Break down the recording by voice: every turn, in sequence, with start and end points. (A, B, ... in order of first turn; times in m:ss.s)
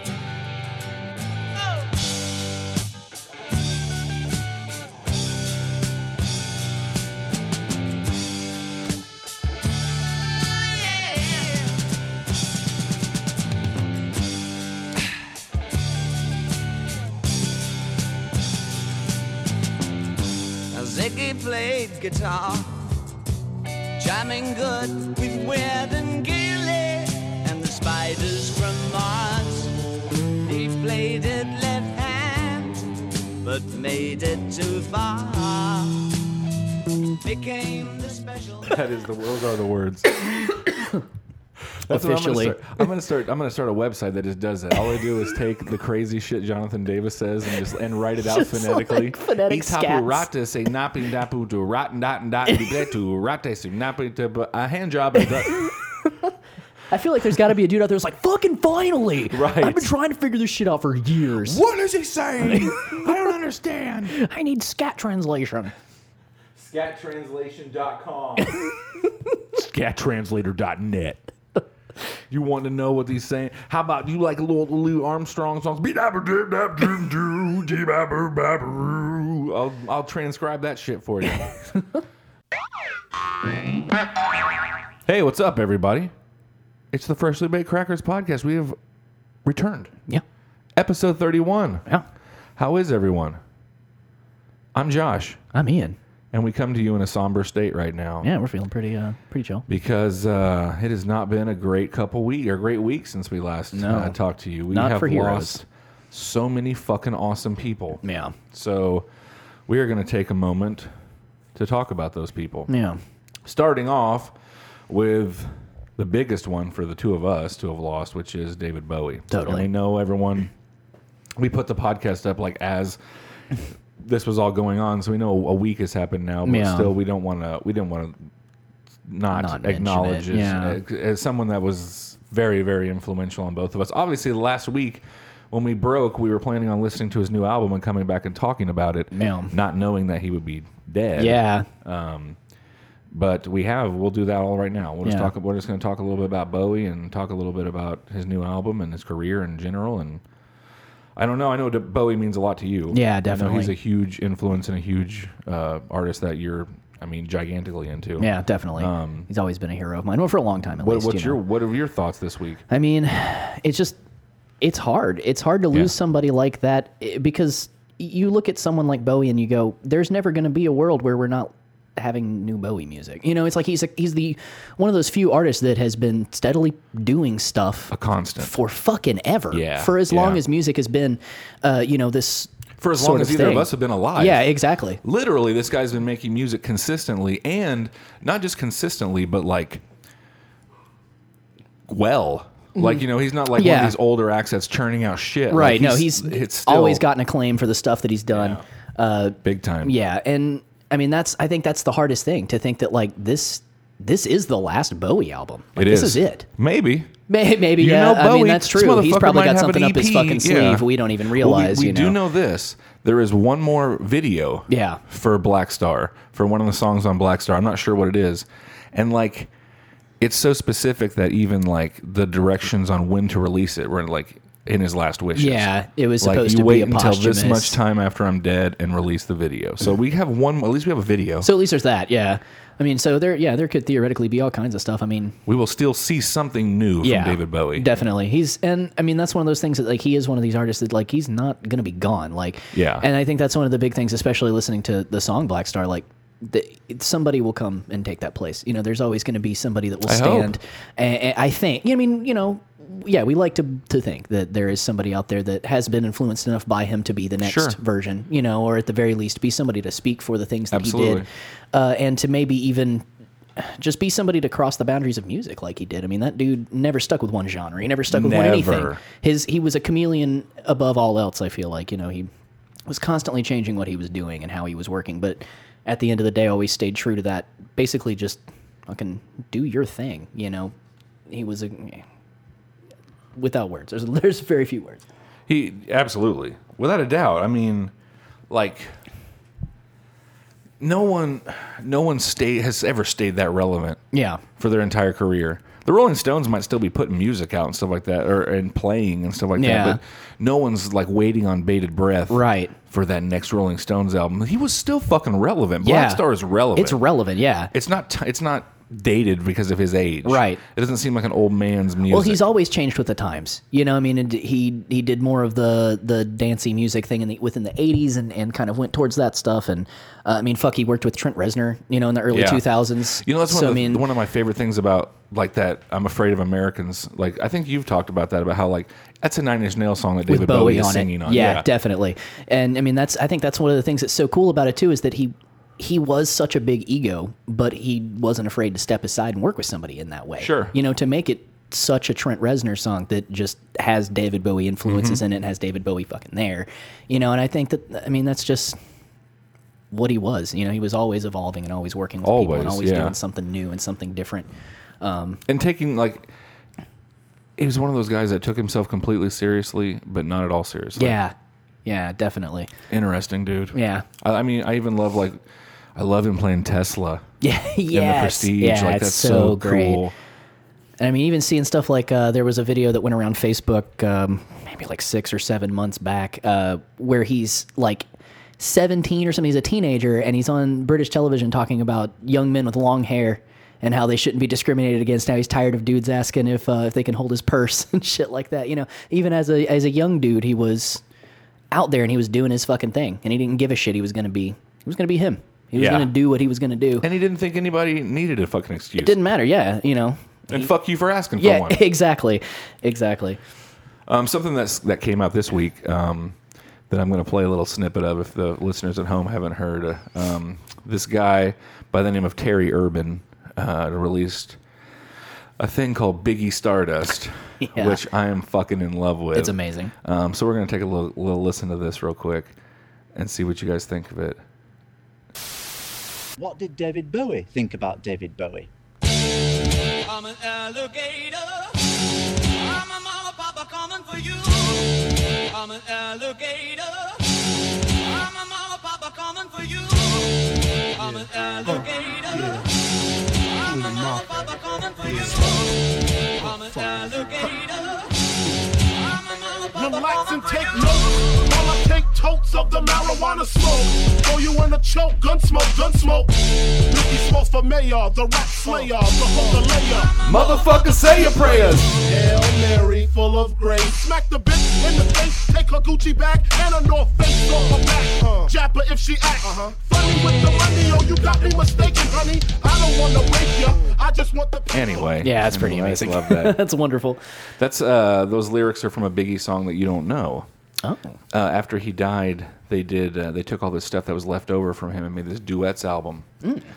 0:10.4-0:11.8 A
0:20.7-0:22.9 A
0:24.0-0:29.8 A
0:30.4-0:32.9 A
0:33.4-0:36.2 A
0:37.2-0:38.9 A
0:38.7-0:40.1 B
0:41.9-0:55.7 B
0:41.9-0:42.6 C
0:48.2-0:50.3 C
0:55.5-0:56.1 C
0:56.9-1:01.6 C
0:59.3-0:59.9 B
1:01.4-1:04.2 B
1:02.4-1:03.3 C
1:04.1-1:05.7 C
1:06.6-1:08.7 B
1:09.5-1:11.3 B
1:12.3-1:21.6 B
1:25.1-1:26.1 B
1:26.9-1:28.8 B
1:29.4-1:29.9 B
1:30.8-1:31.9 B
1:32.6-1:33.4 B
1:34.7-1:35.4 B
1:35.5-1:36.0 C
1:36.3-1:38.3 B
1:38.2-1:39.6 C
1:39.7-1:49.1 B
1:43.7-1:44.2 C
1:44.7-1:45.6 C
1:48.0-1:48.4 C
1:49.7-1:50.9 B
1:51.6-1:52.7 B
1:52.7-1:53.0 C
1:53.4-1:54.4 B
1:54.9-2:00.5 B
1:59.3-1:59.7 C
2:01.4-2:03.0 B
2:04.0-2:08.3 B
2:06.4-2:06.9 C
2:09.1-2:22.4 B
2:09.3-2:10.8 C
2:19.1-2:19.5 C
2:21.2-2:21.7 C
2:23.1-2:30.2 B
2:25.0-2:25.3 C
2:31.2-2:39.3 B
2:32.9-2:33.8 C
2:38.2-2:41.4 C
2:40.8-2:42.6 B
2:42.7-2:44.0 C
2:44.6-3:05.0 C
2:57.9-2:58.5 B
2:59.5-3:00.4 B
3:02.8-3:04.5 B
3:05.0-3:09.8 B
3:11.9-3:17.0 B
3:13.5-3:14.0 C
3:15.5-3:26.5 C
3:18.3-3:18.6 B
3:19.4-3:20.0 B
3:25.8-3:27.1 B
3:27.3-3:32.2 C
3:27.8-3:39.5 B
3:34.7-3:35.0 C
3:40.2-3:45.7 B
3:45.4-3:47.8 C
3:46.2-3:51.5 B
3:51.4-3:55.4 C
3:55.5-3:57.9 B
3:57.0-4:23.1 C
4:02.7-4:03.1 B
4:10.1-4:10.6 B
4:17.4-4:17.8 B
4:20.7-4:21.3 B
4:23.6-4:32.3 C
4:28.1-4:29.0 B
4:32.9-4:40.7 C
4:41.3-4:42.0 C
4:43.4-4:45.0 C
4:45.5-4:47.9 B
4:48.5-4:48.9 B
4:50.8-4:54.0 B
4:54.1-4:54.4 C
4:54.6-5:07.0 B
4:59.6-5:00.0 C
5:02.3-5:02.8 C
5:05.8-5:06.2 C
5:06.8-5:07.7 C
5:07.7-5:12.4 B
5:10.3-5:10.6 C
5:12.1-5:24.0 C
5:22.3-5:22.7 B
5:23.2-5:31.7 B
5:30.3-5:48.8 C
5:40.4-5:40.7 B
5:44.9-5:45.2 B
5:49.9-5:54.5 C
5:52.2-5:53.2 B
5:55.0-5:55.4 C
5:55.5-5:56.3 B
5:57.6-6:01.2 B
6:01.0-6:01.3 C
6:01.9-6:02.7 C
6:02.9-6:05.4 B
6:03.7-6:04.1 C
6:06.0-6:07.2 B
6:07.4-6:10.0 C
6:07.9-6:10.1 B
6:11.0-6:18.1 C
6:18.6-6:31.0 C
6:31.7-6:37.1 C
6:35.8-6:36.1 B
6:37.0-6:39.2 B
6:39.0-6:40.7 C
6:40.5-6:41.8 B
6:41.4-6:43.4 C
6:44.1-6:46.4 B
6:46.9-6:54.6 B
6:55.6-7:02.6 B
6:57.6-6:58.0 C
6:59.3-6:59.9 C
7:03.2-7:04.4 B
7:06.4-7:08.7 D
7:09.9-7:22.7 A
7:23.4-7:31.0 A
7:29.7-7:55.1 E
7:40.0-7:40.8 A
7:40.2-7:42.0 B
7:54.7-7:56.6 B
7:55.2-7:57.2 C
7:57.6-8:00.5 B
8:00.8-8:01.2 C
8:01.3-8:06.3 B
8:06.4-8:06.7 C